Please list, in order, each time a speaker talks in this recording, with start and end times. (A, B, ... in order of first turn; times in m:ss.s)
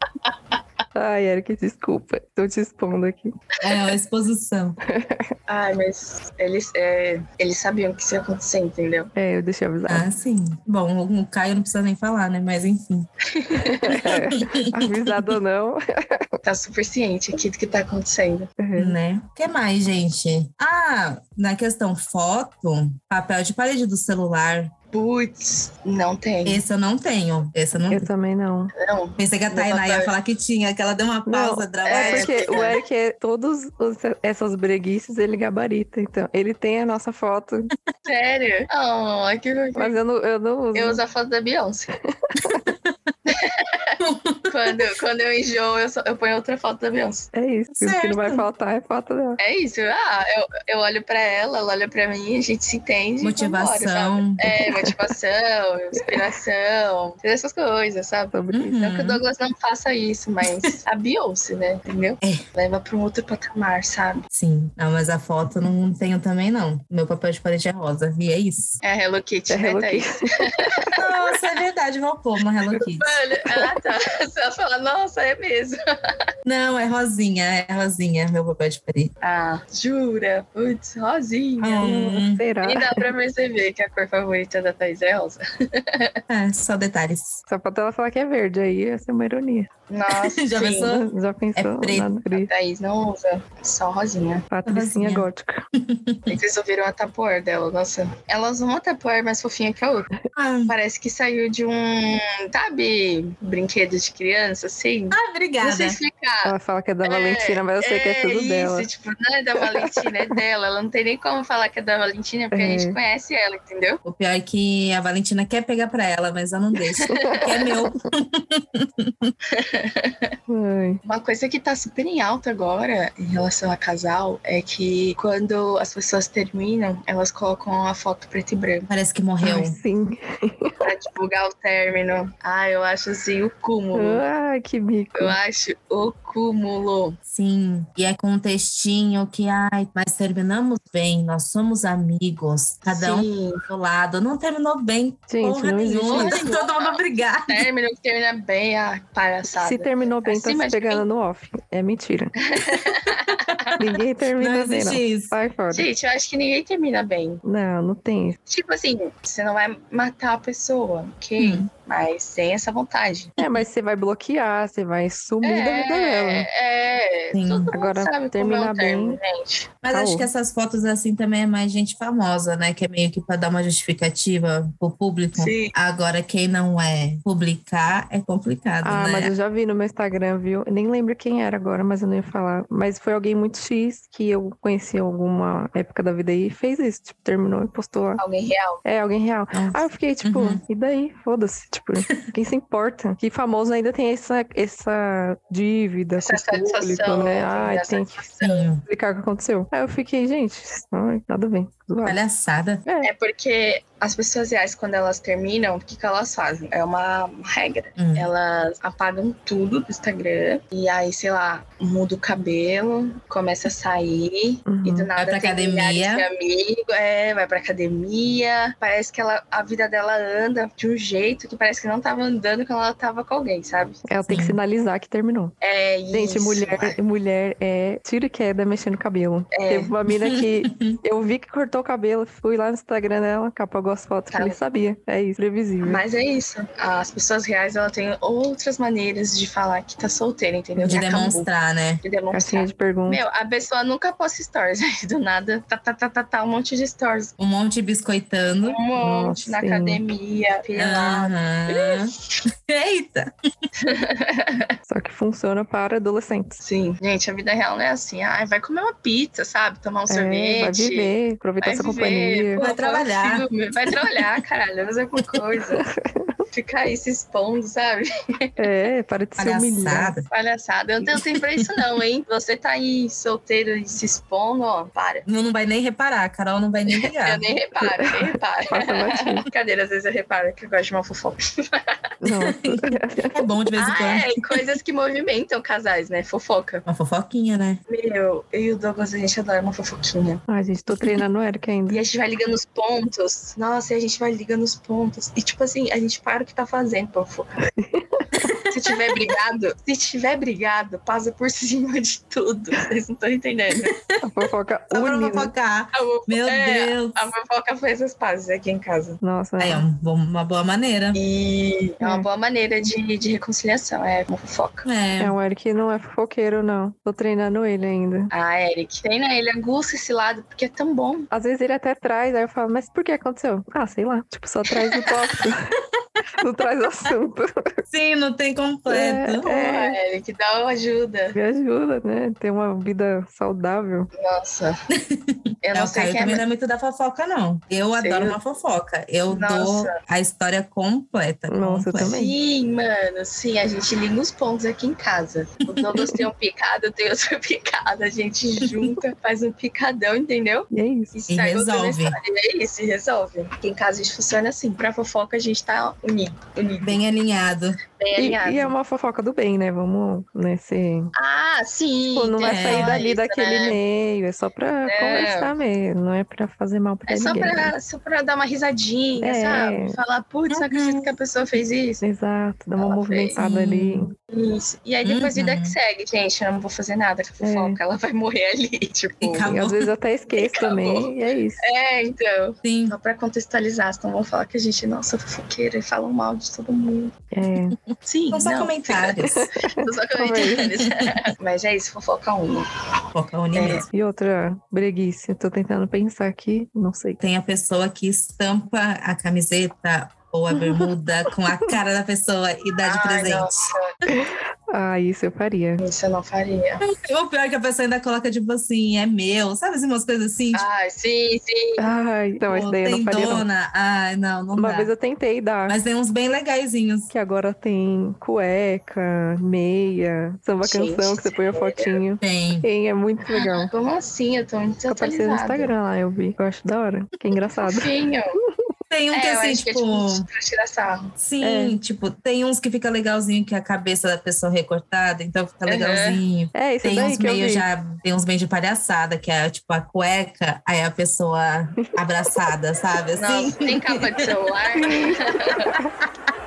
0:01.0-0:03.3 A
0:03.6-0:04.8 B
0:04.9-0:05.3 A
0:05.5-0:09.1 C
0:09.1-0:10.1 A
0:09.9-0:13.1 B
0:13.3-0:14.1 C
0:13.6-0:16.4 A
0:13.9-0:15.1 B
0:16.4-0:18.5 C
0:18.6-0:19.0 A
0:18.8-0:24.7 B
0:24.9-0:26.6 C
0:26.4-0:28.1 B
0:27.9-0:28.7 A
0:28.8-0:30.1 C
0:29.2-0:32.5 B
0:31.3-0:37.7 A
0:31.8-0:32.8 C
0:38.1-0:40.0 C
0:39.8-0:41.0 A
0:40.8-0:41.9 C
0:42.2-0:42.6 A
0:42.4-0:43.1 B
0:43.3-0:44.0 C
0:44.0-0:44.9 B
0:44.5-0:47.3 C
0:47.3-0:49.4 A
0:47.7-0:48.5 B
0:49.4-1:04.2 C
0:53.2-0:54.4 B
0:54.6-0:55.0 A
0:58.3-0:58.8 A
0:58.5-0:59.2 B
1:04.3-1:08.8 B
1:08.8-1:11.4 C
1:09.5-1:10.3 A
1:11.0-1:13.2 B
1:13.0-1:16.2 C
1:16.4-1:19.1 B
1:19.2-1:21.9 C
1:21.6-1:22.4 B
1:21.8-1:23.1 A
1:22.6-1:26.2 C
1:26.3-1:27.4 B
1:27.5-1:29.7 A
1:29.9-1:31.0 C
1:30.1-1:32.1 B
1:30.8-1:32.5 A
1:32.3-1:34.5 C
1:34.5-1:35.6 A
1:34.6-1:36.4 B
1:36.3-1:40.1 C
1:40.3-1:40.7 B
1:40.7-1:54.0 C
1:45.1-1:46.0 B
1:46.4-1:48.9 A
1:49.6-1:50.1 A
1:52.5-1:53.0 A
1:54.0-1:59.3 B
1:57.1-1:58.0 A
1:57.1-1:57.5 C
1:59.5-2:00.3 C
2:00.5-2:01.0 A
2:01.0-2:08.9 C
2:08.9-2:09.8 B
2:09.4-2:10.8 A
2:10.8-2:14.2 C
2:13.9-2:15.4 A
2:15.1-2:17.2 C
2:17.3-2:27.7 B
2:22.9-2:23.6 C
2:25.3-2:26.5 A
2:26.1-2:31.0 C
2:29.5-2:32.4 A
2:32.4-2:33.8 C
2:32.7-2:33.8 B
2:33.8-2:35.9 A
2:34.4-2:35.3 B
2:35.7-2:37.4 C
2:37.4-2:38.4 A
2:38.5-2:43.3 C
2:41.4-2:41.7 B
2:43.4-2:46.5 A
2:45.4-2:49.7 C
2:47.3-2:47.7 B
2:47.7-2:49.2 A
2:49.8-2:59.3 B
2:49.9-2:50.3 A
2:55.4-2:55.7 C
2:58.8-3:08.2 A
3:08.2-3:08.8 C
3:08.8-3:18.2 A
3:09.5-3:10.6 B
3:16.2-3:18.7 C
3:18.4-3:18.8 B
3:18.8-3:22.2 A
3:22.0-3:22.8 B
3:22.8-3:23.1 A
3:23.0-3:44.2 C
3:28.0-3:28.3 B
3:34.6-3:35.1 A
3:35.2-3:36.3 B
3:44.1-3:45.5 A
3:44.3-3:44.6 B
3:45.6-3:47.0 C
3:46.1-3:56.0 A
3:49.5-3:49.9 C
3:50.1-3:51.0 B
3:54.3-3:54.6 C
3:55.8-4:01.5 C
4:00.8-4:01.1 A
4:00.9-4:02.0 B
4:02.0-4:07.3 C
4:02.3-4:03.2 A
4:07.4-4:08.8 B
4:08.6-4:12.1 C
4:09.0-4:10.0 A
4:10.8-4:13.3 B
4:13.8-4:14.7 C
4:14.9-4:16.6 A
4:16.6-4:25.9 C
4:20.1-4:22.6 A
4:22.6-4:23.5 B
4:25.8-4:26.4 A
4:26.5-4:28.6 C
4:28.6-4:30.2 A
4:29.4-4:30.3 B
4:30.3-4:35.3 C
4:35.3-4:37.4 B
4:37.0-4:42.0 C
4:37.8-4:39.5 A
4:42.2-4:43.4 A
4:42.4-4:44.4 B
4:43.8-4:46.8 C
4:46.9-4:47.8 B
4:47.9-4:50.4 C
4:50.5-4:52.0 A
4:51.9-4:57.7 C
4:57.8-4:58.5 A
4:58.4-4:59.0 B
4:58.7-5:03.9 C
5:03.8-5:04.2 B
5:04.2-5:05.5 A
5:04.9-5:07.3 B
5:05.9-5:09.2 C
5:09.2-5:09.8 A
5:09.6-5:11.2 B
5:11.1-5:14.9 C
5:12.0-5:12.3 A
5:14.8-5:15.4 B
5:15.2-5:18.3 A
5:18.3-5:21.3 C
5:21.3-5:25.8 A
5:26.4-5:27.8 A
5:27.9-5:29.5 B
5:28.9-5:30.0 A
5:29.4-5:31.4 C
5:31.3-5:34.1 A
5:34.2-5:34.8 C
5:34.9-5:42.1 B
5:35.6-5:36.4 C
5:38.0-5:38.4 C
5:39.3-5:40.0 C
5:41.5-5:42.4 A
5:42.0-5:57.0 C
5:48.6-5:49.0 B
5:50.7-5:51.1 A
5:51.3-5:52.2 B
5:56.8-5:57.8 B
5:57.9-5:58.7 C
5:58.2-6:01.1 A
6:01.1-6:03.8 C
6:02.1-6:07.7 A
6:02.4-6:03.0 B
6:04.9-6:05.5 C
6:07.1-6:12.0 C
6:09.2-6:10.0 A
6:10.5-6:11.1 B
6:12.0-6:14.1 A
6:12.8-6:13.4 C
6:13.4-6:14.1 B
6:14.3-6:19.5 C
6:15.0-6:15.8 B
6:17.4-6:17.8 A
6:19.2-6:19.9 B
6:19.4-6:21.6 A
6:20.3-6:27.2 C
6:22.6-6:23.0 B
6:27.3-6:27.8 A
6:27.7-6:29.5 B
6:28.0-6:32.7 C
6:29.2-6:30.8 A
6:30.8-6:31.1 B
6:33.1-6:33.9 B
6:33.6-6:33.9 C
6:33.9-6:37.2 A
6:37.2-6:43.5 B
6:40.5-6:40.9 A
6:42.8-6:43.9 C
6:44.1-6:45.8 A
6:45.8-6:46.8 C
6:46.8-6:50.6 B
6:50.5-6:51.8 C
6:51.8-6:53.5 A
6:52.4-6:54.9 B
6:54.6-6:55.8 A
6:55.7-6:57.1 B
6:57.1-7:03.7 A
7:00.6-7:02.0 C
7:02.2-7:02.7 B
7:03.3-7:05.7 C
7:04.9-7:07.9 A
7:07.6-7:08.4 C
7:08.9-7:10.3 B
7:09.1-7:11.1 C
7:11.2-7:24.3 B
7:11.4-7:11.8 A
7:15.7-7:16.2 C
7:16.5-7:17.6 A
7:23.2-7:25.7 C
7:24.8-7:25.9 A